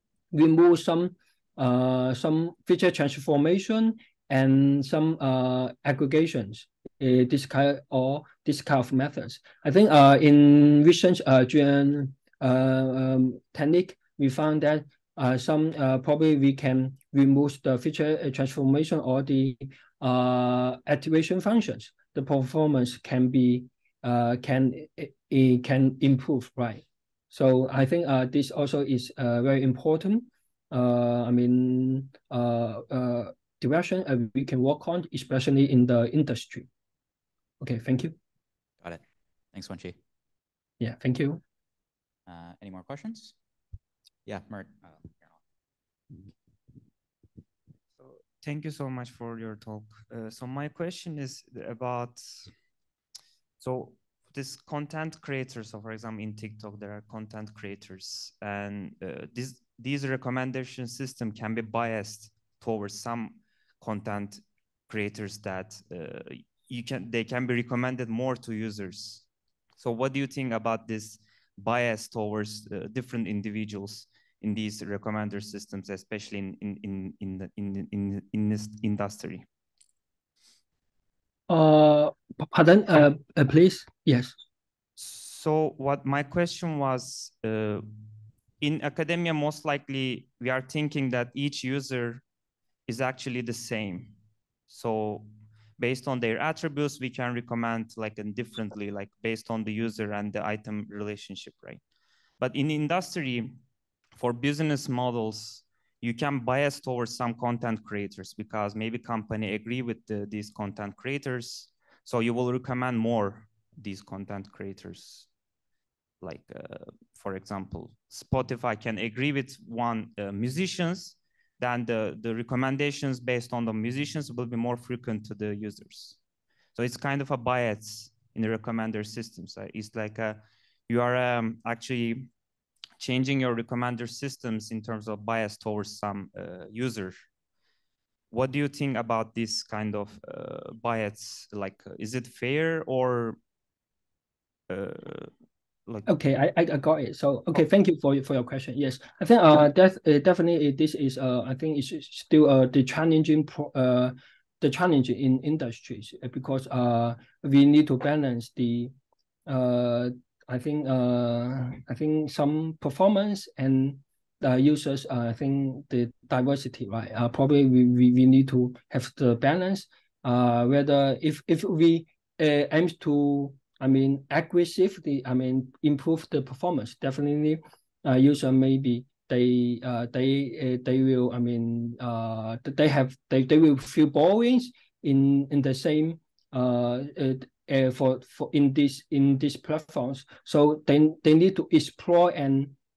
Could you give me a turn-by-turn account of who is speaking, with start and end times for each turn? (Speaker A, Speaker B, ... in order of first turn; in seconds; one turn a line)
Speaker A: 0.3-36.7
Speaker A: 37.6-38.1
Speaker B: 39.5-40.0
Speaker A: 40.8-41.4
Speaker B: 42.3-43.3
Speaker B: 44.2-45.4
Speaker C: 48.0-52.5
Speaker C: 53.6-69.2
Speaker C: 69.8-79.4
Speaker A: 81.5-84.3
Speaker C: 85.0-87.9
Speaker C: 88.6-92.2
Speaker C: 92.9-94.1
Speaker C: 94.7-101.8
Speaker C: 102.4-103.6
Speaker C: 104.1-115.3
Speaker C: 116.2-126.2
Speaker C: 126.7-132.3
Speaker C: 133.0-137.1
Speaker C: 138.3-143.4
Speaker C: 144.7-145.3
Speaker A: 146.1-158.9
Speaker A: 159.4-192.7